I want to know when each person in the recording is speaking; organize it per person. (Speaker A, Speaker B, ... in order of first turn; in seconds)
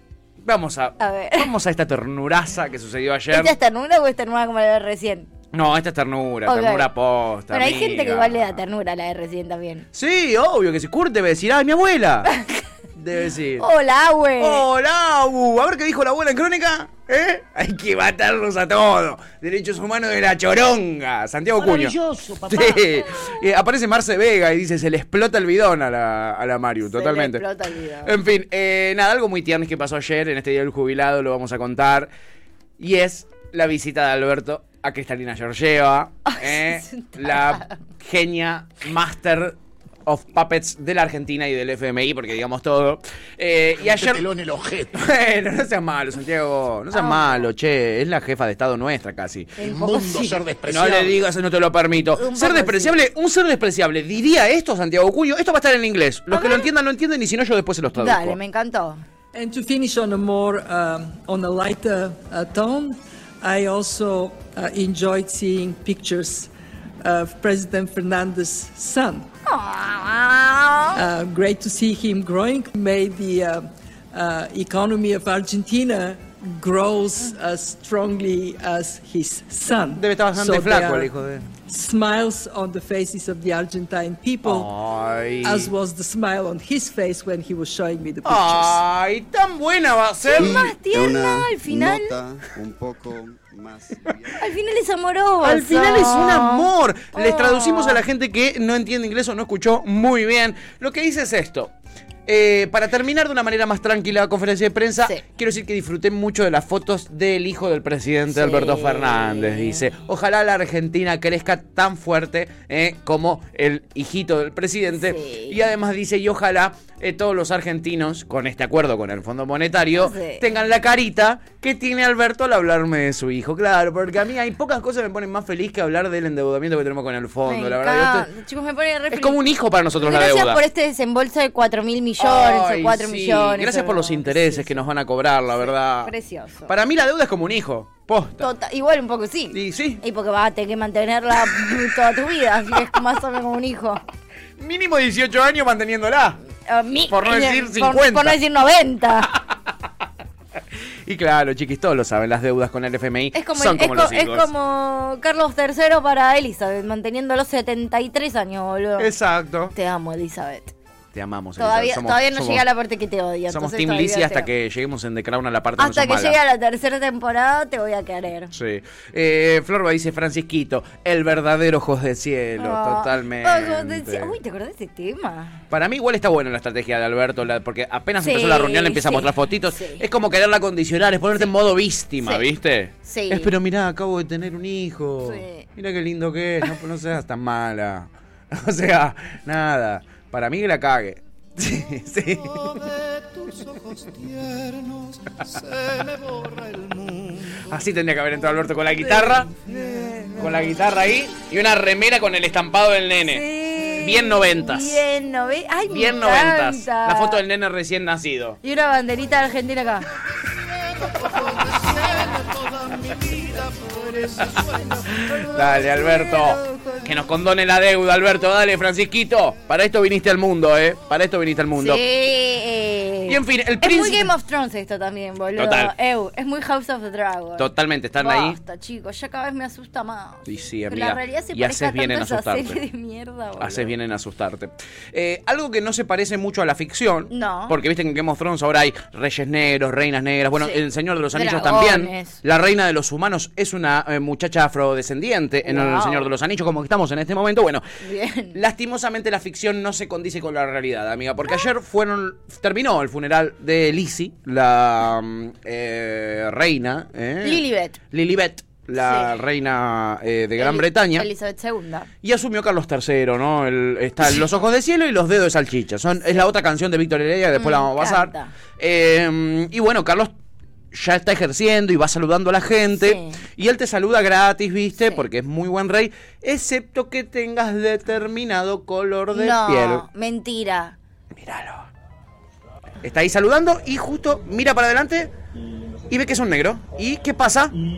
Speaker A: 0.4-3.5, 5.5-8.6, 9.9-12.3, 12.9-13.7, 14.4-27.4, 28.1-32.1, 32.8-44.2, 44.9-49.6, 50.6-58.4, 80.0-81.5, 84.4-85.7, 88.2-90.8, 95.4-101.7, 102.3-128.3, 129.1-130.6, 132.2-136.1, 136.7-138.5, 139.5-140.0, 144.6-146.4, 147.1-148.4, 151.1-154.5, 159.0-159.7, 161.1-162.7, 163.5-166.4, 168.5-174.4, 175.7-192.9, 197.7-199.6, 200.3-203.4, 204.0-205.0, 205.9-208.6, 215.1-222.0, 223.3-224.3, 225.6-225.9, 227.6-228.6, 230.5-232.8, 233.6-247.8, 248.5-261.3, 262.2-270.3, 270.9-280.0, 281.4-281.9, 283.0-285.3, 286.1-287.8
Speaker B: 1.0-1.5, 3.3-5.3, 6.5-6.9, 7.5-9.9, 13.6-14.7, 21.6-23.3, 26.8-28.1, 36.3-37.7, 46.9-47.5, 49.6-50.5, 52.2-53.0, 56.3-56.7, 58.0-59.0, 69.5-71.0, 90.2-92.2, 94.4-98.0, 108.3-109.8, 114.9-115.6, 120.0-120.5, 127.5-129.4, 130.0-134.8, 135.5-136.7, 138.4-144.0, 146.7-149.3, 153.3-159.1, 159.7-160.7, 161.6-164.5, 165.8-168.5, 172.6-175.6, 178.2-180.0, 183.1-183.5, 185.2-185.7, 203.2-207.4, 208.6-210.1, 215.1-217.1, 221.8-233.9, 237.3-237.8, 241.3-242.4, 245.7-246.3, 248.0-248.6, 257.4-258.0, 259.0-259.4, 260.6-262.1, 267.6-268.5, 273.0-273.4, 279.3-281.0
Speaker C: 43.8-45.1, 49.6-51.3, 90.7-91.2
Speaker D: 59.3-66.5, 67.0-69.3, 71.0-81.1, 81.7-84.7, 85.4-88.8
Speaker E: 90.9-93.8